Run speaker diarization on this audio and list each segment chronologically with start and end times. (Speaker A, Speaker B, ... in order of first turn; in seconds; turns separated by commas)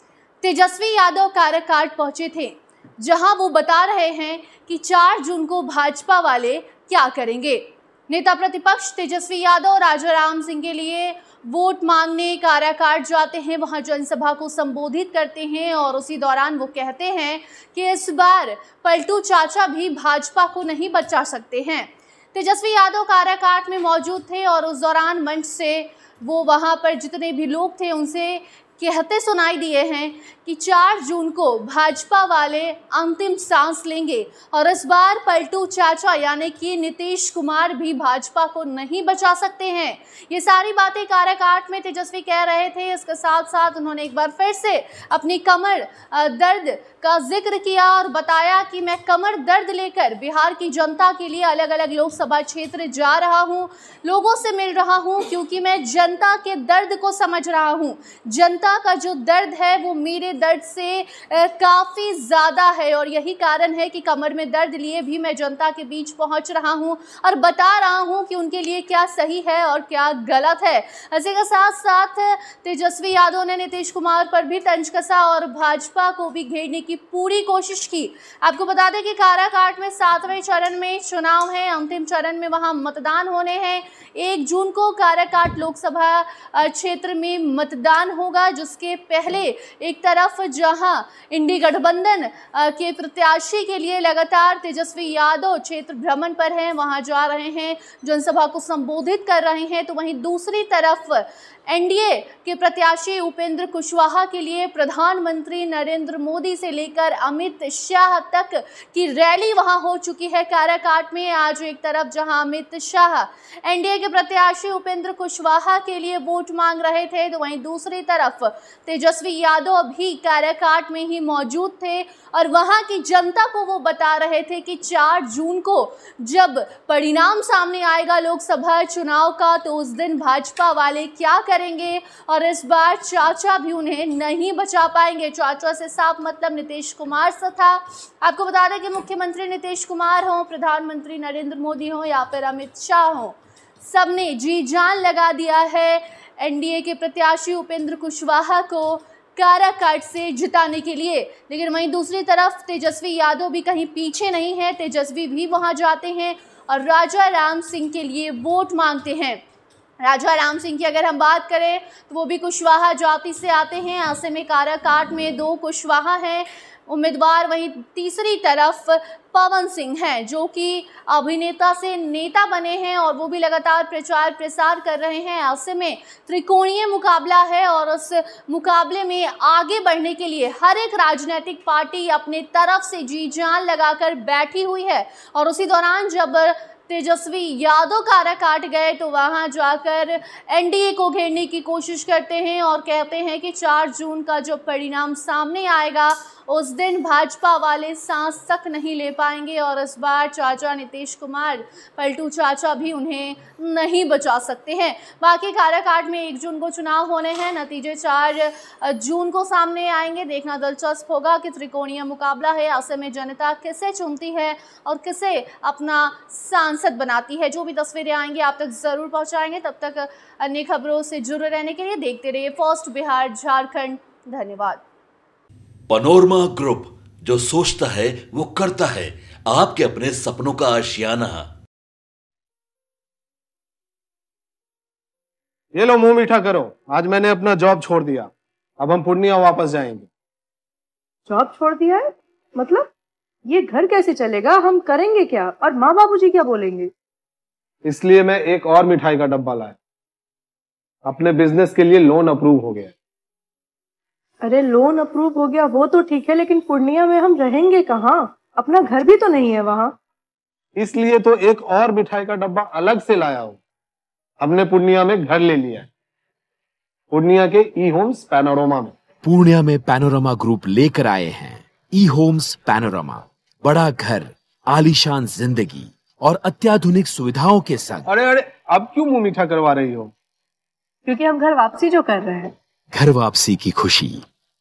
Speaker A: 0.4-159.4, Speaker A: 160.0-224.8, Speaker B: 225.9-231.5, Speaker C: 235.7-240.1, Speaker D: 241.3-242.9, Speaker D: 243.5-246.9, Speaker C: 247.8-249.8, Speaker C: 251.0-252.9, Speaker D: 254.4-259.9, Speaker C: 260.8-263.6, Speaker C: 264.4-265.9, Speaker C: 267.1-268.9, Speaker E: 269.2-278.1, Speaker C: 278.1-280.1, Speaker D: 281.1-282.5, Speaker E: 282.9-284.2